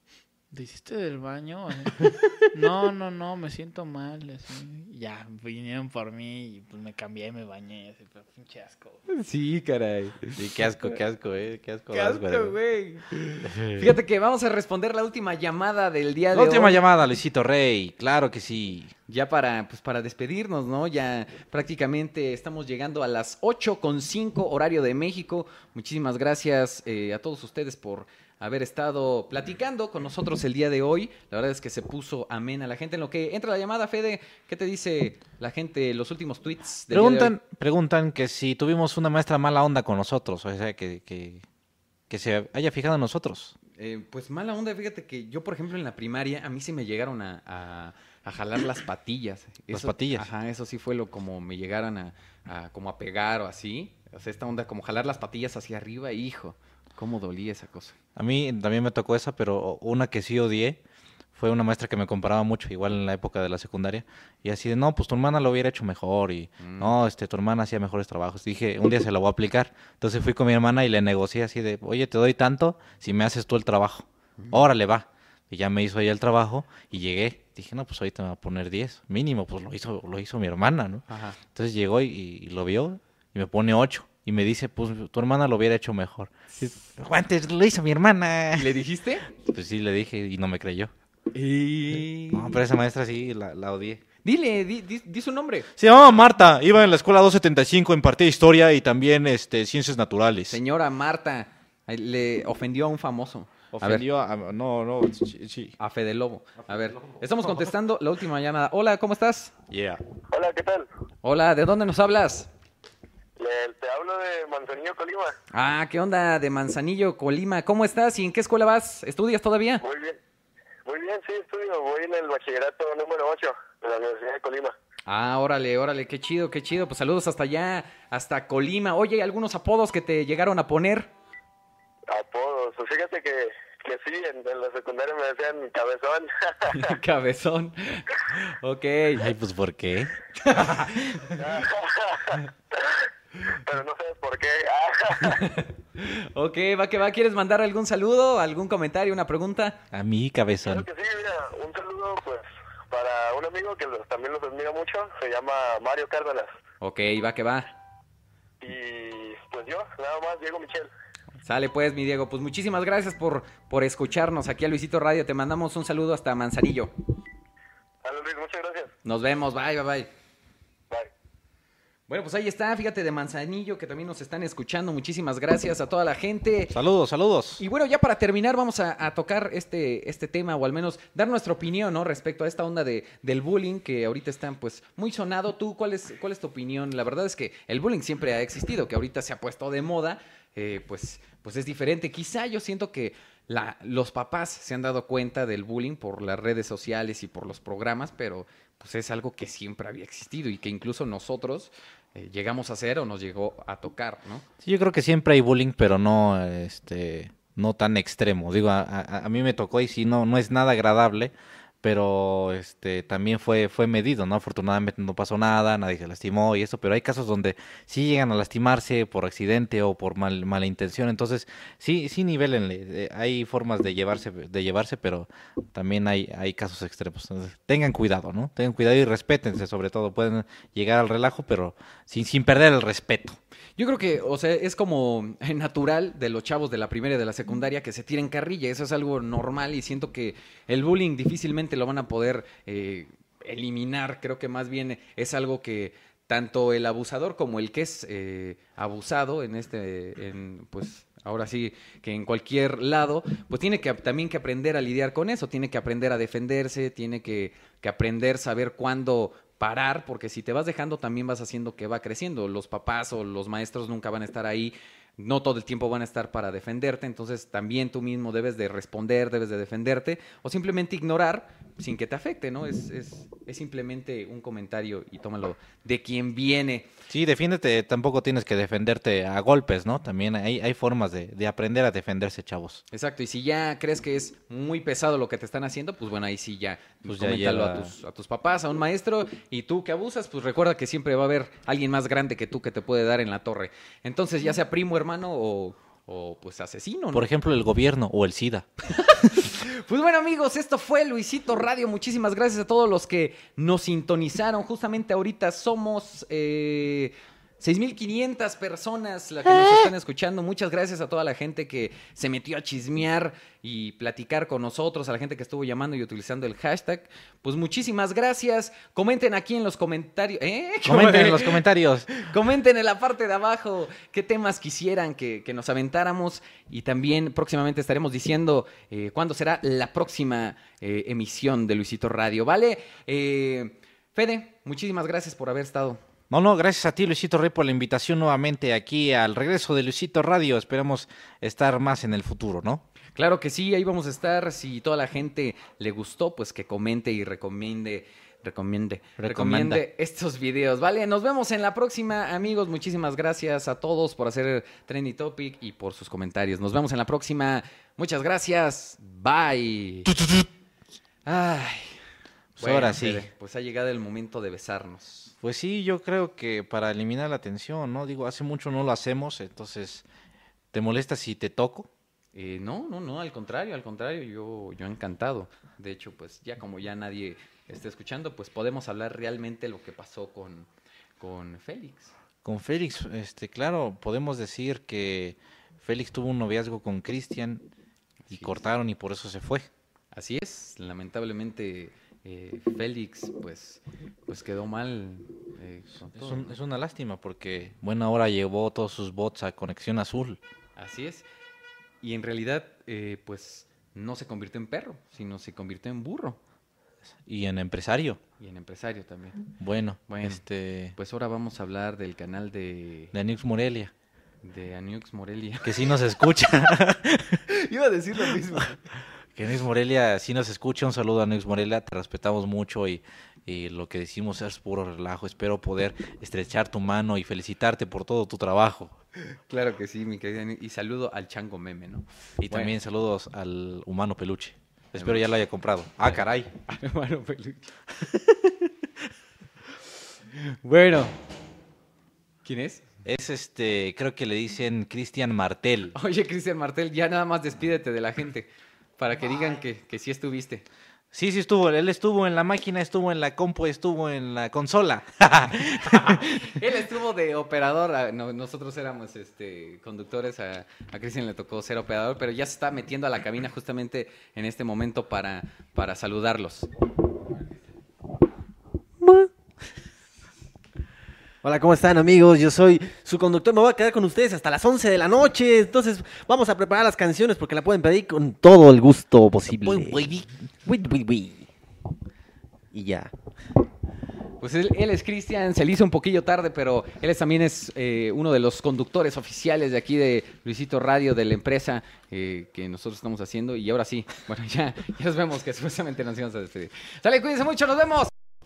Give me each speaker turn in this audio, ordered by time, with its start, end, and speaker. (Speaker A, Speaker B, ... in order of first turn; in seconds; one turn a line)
Speaker A: 0.5-9.0
Speaker B: 9.1-10.4
Speaker C: 10.3-12.6
Speaker B: 11.9-16.8
Speaker C: 13.4-13.9
Speaker C: 16.3-18.9
Speaker B: 19.1-37.3
Speaker C: 36.9-41.4
Speaker C: 42.1-43.5
Speaker B: 43.7-58.0
Speaker C: 49.7-50.3
Speaker C: 58.1-60.8
Speaker C: 61.3-88.8
Speaker B: 66.6-66.9
Speaker B: 81.1-81.4
Speaker B: 86.5-86.8
Speaker B: 88.5-89.3
Speaker C: 89.3-90.9
Speaker B: 91.3-92.6
Speaker C: 92.3-94.0
Speaker B: 94.2-95.7
Speaker C: 95.8-100.6
Speaker B: 100.5-104.0
Speaker C: 103.7-105.8
Speaker B: 105.8-109.5
Speaker C: 109.7-110.0
Speaker D: 110.3-110.9
Speaker B: 111.2-112.5
Speaker D: 113.4-115.3
Speaker B: 115.5-119.8
Speaker D: 119.8-120.2
Speaker D: 120.8-124.7
Speaker B: 125.0-131.1
Speaker D: 132.1-136.9
Speaker B: 136.7-139.2
Speaker C: 139.2-140.2
Speaker B: 140.4-141.4
Speaker D: 141.3-143.0
Speaker D: 143.6-145.4
Speaker B: 145.2-149.8
Speaker C: 149.9-150.8
Speaker D: 150.6-156.5
Speaker B: 156.8-157.7
Speaker D: 158.6-160.9
Speaker B: 161.4-166.9
Speaker D: 168.0-168.9
Speaker B: 169.0-170.1
Speaker B: 172.1-176.7
Speaker C: 176.7-177.6
Speaker B: 177.6-204.4
Speaker C: 204.6-233.4
Speaker B: 233.8-276.9
Speaker C: 277.1-282.8
Speaker B: 282.9-297.3
Speaker C: 287.0-287.9
Speaker C: 297.1-298.7
Speaker B: 299.4-321.6
Speaker C: 320.8-322.1
Speaker B: 322.1-336.0
Speaker C: 336.3-342.8
Speaker B: 343.1-360.1
Speaker C: 349.2-349.8
Speaker C: 360.1-360.4
Speaker B: 361.2-362.0
Speaker C: 362.6-363.3
Speaker B: 362.6-365.3
Speaker C: 365.4-370.0
Speaker C: 370.7-371.9
Speaker B: 372.3-380.7
Speaker B: 381.2-382.1
Speaker C: 382.4-387.6
Speaker B: 388.3-388.6
Speaker C: 388.3-389.7
Speaker B: 390.1-396.5
Speaker C: 396.1-400.4
Speaker B: 400.8-401.2
Speaker B: 402.0-406.4
Speaker C: 407.2-408.2
Speaker B: 408.4-409.4
Speaker C: 409.6-410.9
Speaker B: 410.1-410.4
Speaker B: 410.9-413.1
Speaker C: 413.1-413.9
Speaker B: 414.4-415.9
Speaker C: 415.6-417.4
Speaker B: 417.5-418.9
Speaker C: 419.3-428.9
Speaker B: 429.2-432.7
Speaker C: 432.4-436.5
Speaker B: 434.9-435.2
Speaker B: 436.0-437.7
Speaker B: 440.3-441.1
Speaker B: 442.4-442.8
Speaker C: 443.0-445.9
Speaker B: 445.9-450.6
Speaker C: 451.1-456.2
Speaker B: 455.8-466.7
Speaker E: 469.0-469.3
Speaker E: 471.4-481.5
Speaker E: 482.7-483.1
Speaker B: 484.4-498.1